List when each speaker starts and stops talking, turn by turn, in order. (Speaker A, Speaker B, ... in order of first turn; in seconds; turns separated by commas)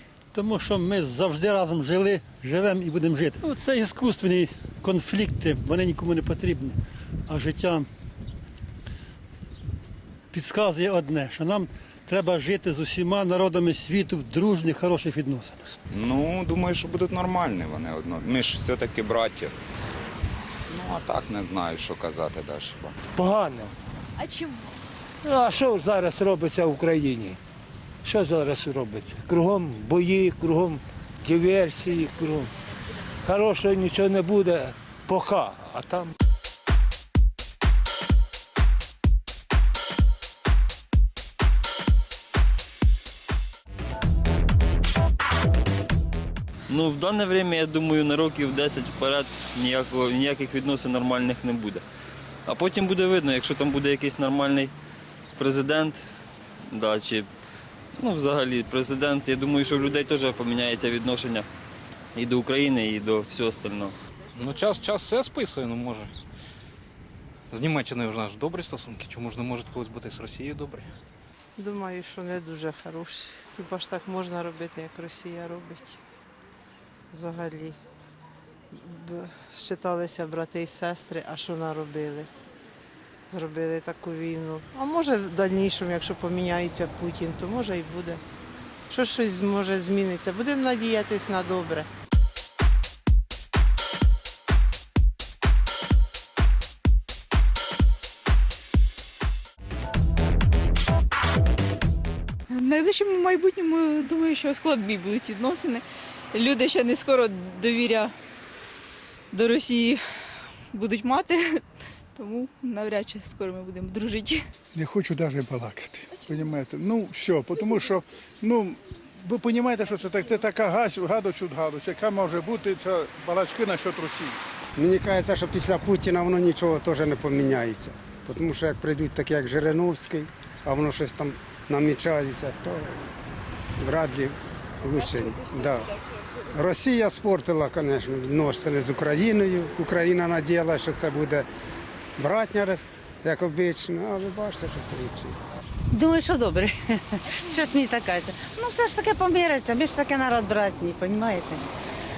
Speaker A: 0.3-7.9, Speaker A: 10.3-15.7, Speaker B: 16.0-19.5, Speaker B: 20.8-22.9, Speaker C: 23.2-23.7, Speaker C: 25.2-27.4, Speaker C: 28.0-32.5, Speaker C: 33.2-36.1, Speaker D: 46.7-51.8, Speaker D: 52.5-54.7, Speaker D: 55.4-56.0, Speaker D: 56.7-57.3, Speaker D: 58.0-61.5, Speaker D: 62.1-63.9, Speaker E: 64.4-66.1, Speaker E: 67.5-70.9, Speaker F: 71.6-76.0, Speaker F: 77.1-77.8, Speaker F: 78.7-82.3, Speaker F: 83.3-88.2, Speaker F: 88.9-91.9, Speaker G: 102.5-108.1, Speaker G: 109.3-110.0, Speaker G: 110.7-111.6, Speaker G: 112.2-114.4, Speaker H: 114.7-124.4, Speaker I: 124.8-133.1, Speaker I: 133.8-136.0, Speaker I: 136.5-141.4, Speaker I: 142.2-145.5, Speaker J: 145.9-151.7